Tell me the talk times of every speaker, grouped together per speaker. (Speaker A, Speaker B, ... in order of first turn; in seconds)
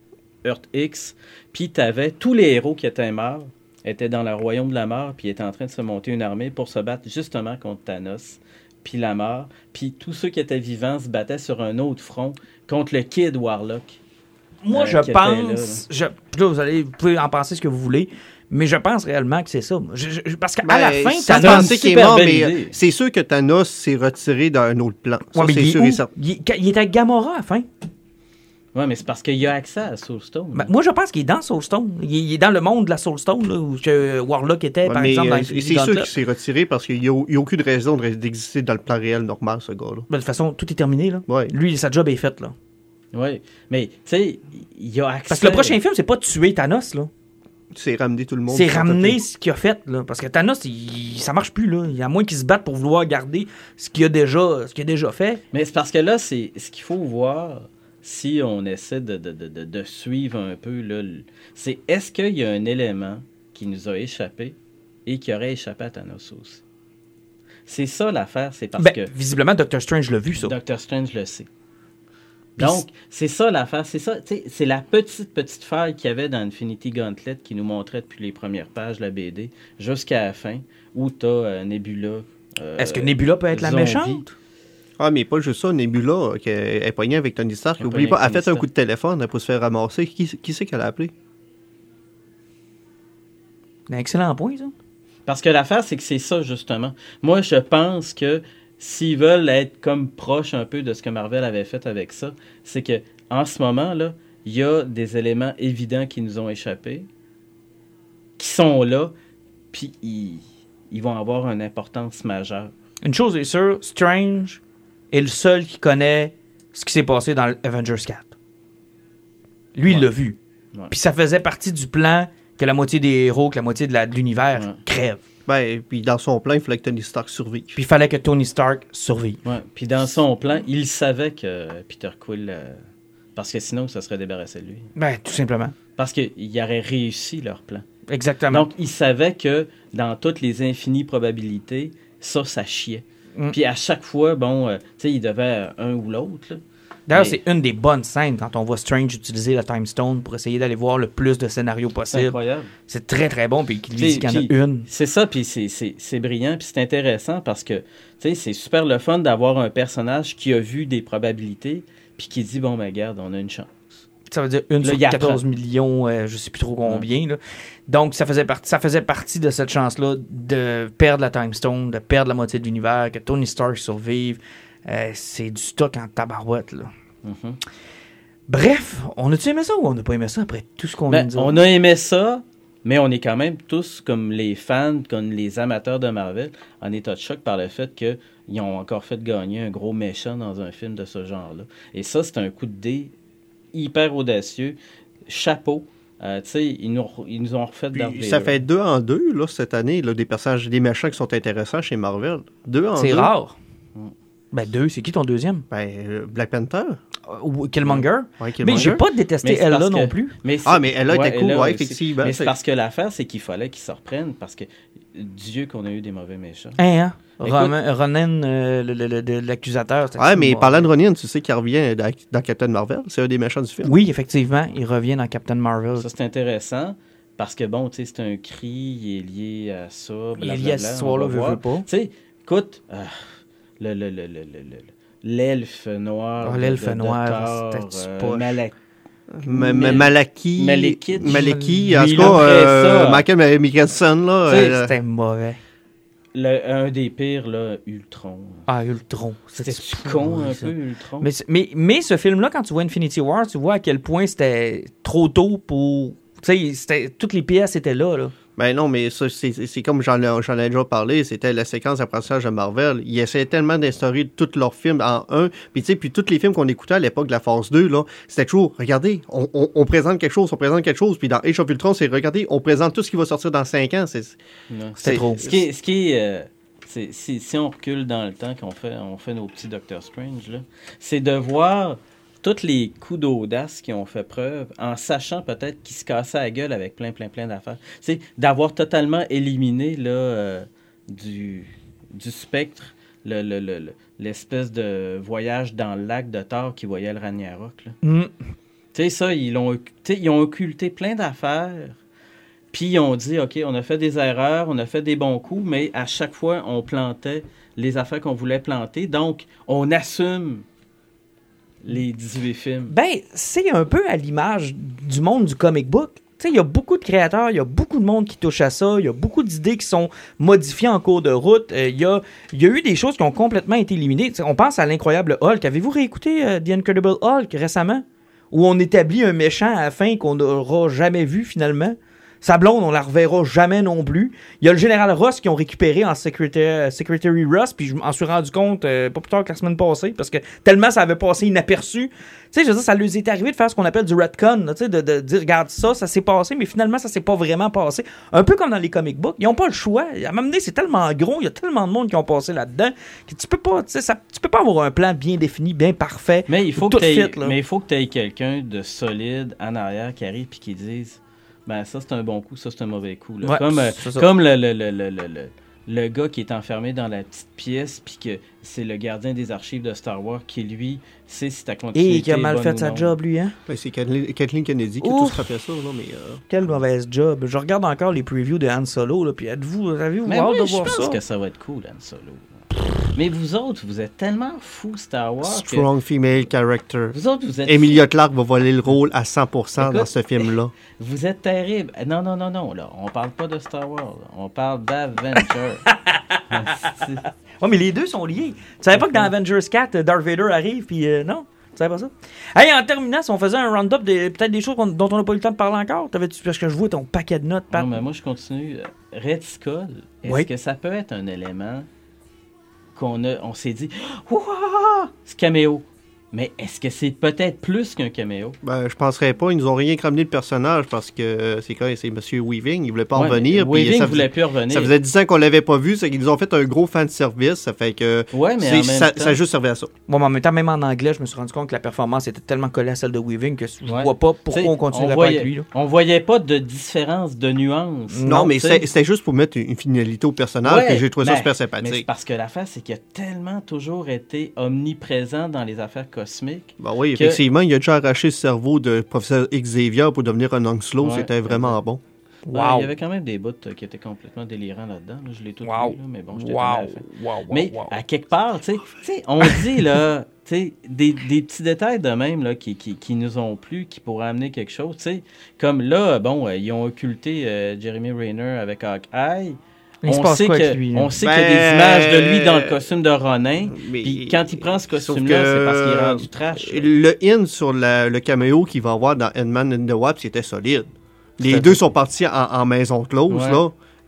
Speaker A: 0.4-14.0, 14.7-15.8, 21.3-22.8, 28.7-30.7, 43.1-45.8, 55.5-64.5, 65.0-66.6, 67.7-69.1, 70.3-71.5, 72.6-84.2, 87.8-88.6, 95.3-107.0, 108.4-109.1, 109.7-112.7, 129.4-132.8, 133.3-134.9, 135.9-137.8, 138.5-146.6, 147.1-147.4, 152.1-152.7, 154.0-164.0, 164.8-165.4, 177.2-177.6, 181.1-193.1, 193.7-194.8, 195.3-198.6, 208.8-216.8, 217.4-217.7, 226.0-238.7, 239.4-243.2, 244.5-244.7, 246.3-248.7, 249.6-251.3, 274.7-297.9, 298.9-301.9, 302.7-310.6, 311.8-312.9, 356.5-373.1, 380.2-382.5, 383.1-385.9, 387.1-388.0, 389.8-390.4, 391.0-395.8, 396.5-397.2, 398.9-399.3, 407.7-411.9, 412.9-418.6, 423.1-424.9, 428.3-429.4, 433.9-438.8, 440.6-447.4, 451.0-451.8, 452.5-476.9, 481.4-481.8, 483.3-483.6
Speaker B: 14.6-21.7, 25.3-27.6, 30.5-36.1, 40.1-42.5, 45.3-47.1, 48.5-55.4, 68.8-70.5, 82.8-84.3, 93.9-94.7, 113.0-114.6, 115.1-118.3, 119.7-120.4, 120.9-125.2, 127.8-129.4, 134.9-135.7, 138.1-138.7, 147.1-152.3, 152.9-154.9, 164.3-176.9, 178.5-181.6, 202.9-203.6, 204.5-205.6, 207.3-210.3, 216.8-220.9, 223.8-226.1, 230.4-231.8, 236.4-238.4, 241.2-242.4, 244.5-245.6, 248.7-258.3, 275.0-275.4, 298.0-298.3, 312.9-357.5, 363.4-364.3, 371.9-373.5, 375.0-375.5, 376.5-381.2, 395.4-397.0, 397.6-408.0, 430.1-435.6, 438.1-438.6, 452.5-452.9, 455.6-457.9, 470.0-471.1
Speaker C: 20.6-26.1, 34.9-40.1, 41.3-41.5, 47.7-49.2, 85.0-91.1, 125.5-127.8, 197.9-203.3, 205.7-207.0, 208.4-209.0, 210.7-212.5, 220.2-223.9, 239.3-244.9, 258.6-274.4, 275.0-275.6, 373.7-376.4, 385.4-390.7, 418.6-429.9, 438.2-442.0, 446.8-452.0, 471.2-472.9, 473.7-480.9, 481.4-483.7